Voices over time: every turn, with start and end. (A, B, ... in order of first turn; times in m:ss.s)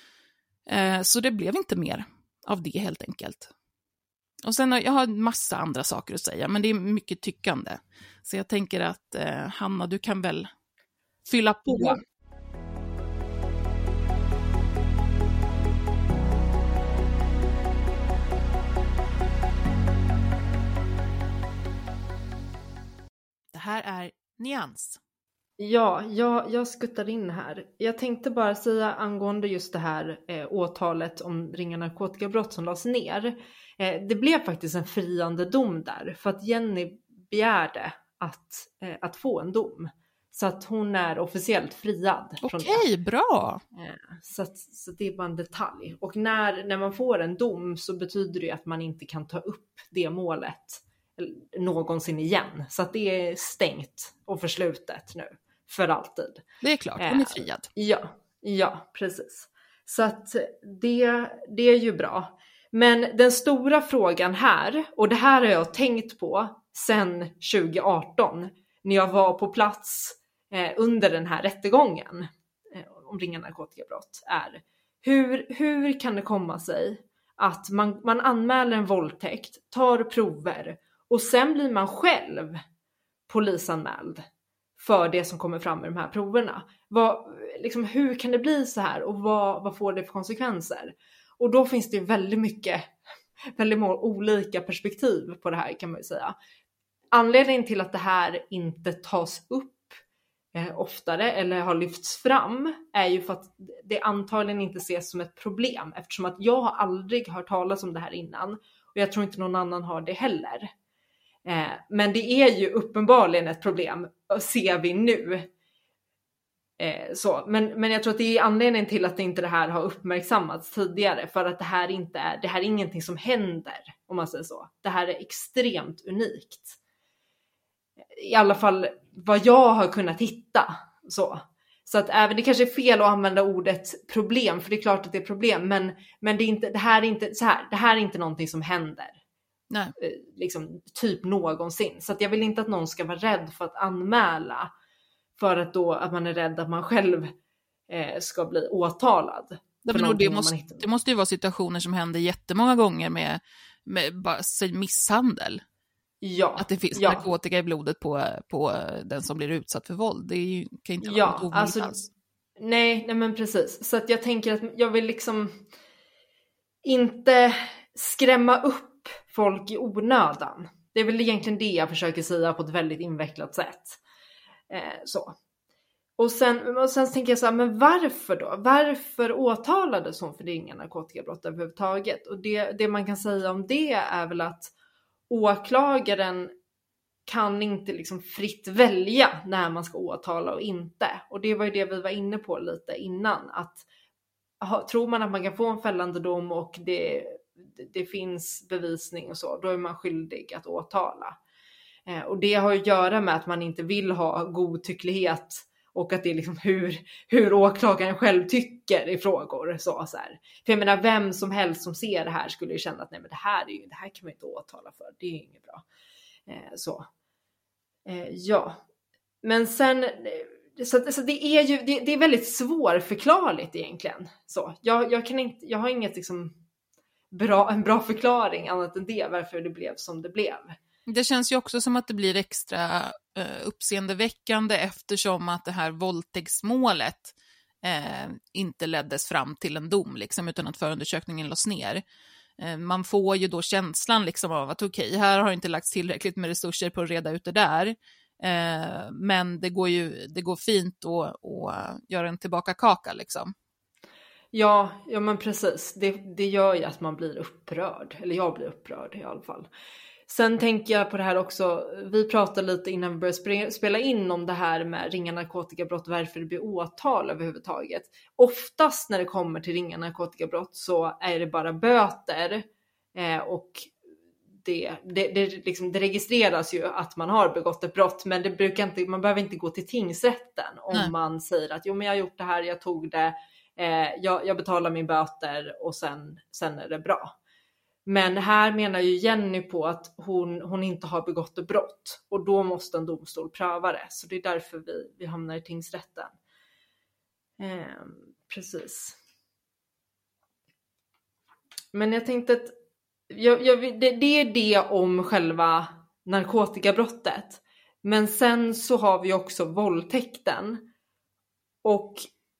0:00.7-0:03.5 A
0:04.4-0:10.5 A
0:11.2-0:12.0 A
0:23.5-0:25.0 A
0:25.6-0:42.8 B
0:42.4-0:43.6 A
0:43.8-0:56.4 B
0:56.6-0:57.7 A
0:57.0-1:22.6 B
1:23.3-1:24.2 B
1:24.8-1:33.0 B
1:33.5-1:36.3 B
1:37.1-1:40.0 B
1:40.5-1:50.7 B
1:51.4-1:55.5 B
1:56.8-2:06.8 B
2:08.1-2:19.2 B
2:20.0-2:24.7 B
2:25.4-2:27.3 B
2:27.9-2:30.8 B
2:29.8-2:35.6 A
2:36.2-2:37.2 B
2:36.6-2:42.0 A
2:41.0-2:41.9 B
2:42.6-2:45.6 B
2:46.8-2:54.0 B
2:54.7-2:55.4 B
2:56.2-3:04.7 B
3:05.3-3:06.5 B
3:07.3-3:13.8 B
3:14.6-3:21.4 B
3:22.1-3:35.8 B
3:36.5-3:37.1 B
3:38.0-3:38.8 B
3:39.4-3:46.6 B
3:47.3-3:50.8 B
3:51.1-4:02.0 A
4:02.6-4:13.5 A
4:14.5-4:19.7 B
4:20.3-4:33.9 B
4:34.6-4:47.3 B
4:48.0-4:56.3 B
4:57.6-4:59.2 B
5:01.9-5:02.7 B
5:03.3-5:10.9 B
5:11.8-5:12.3 B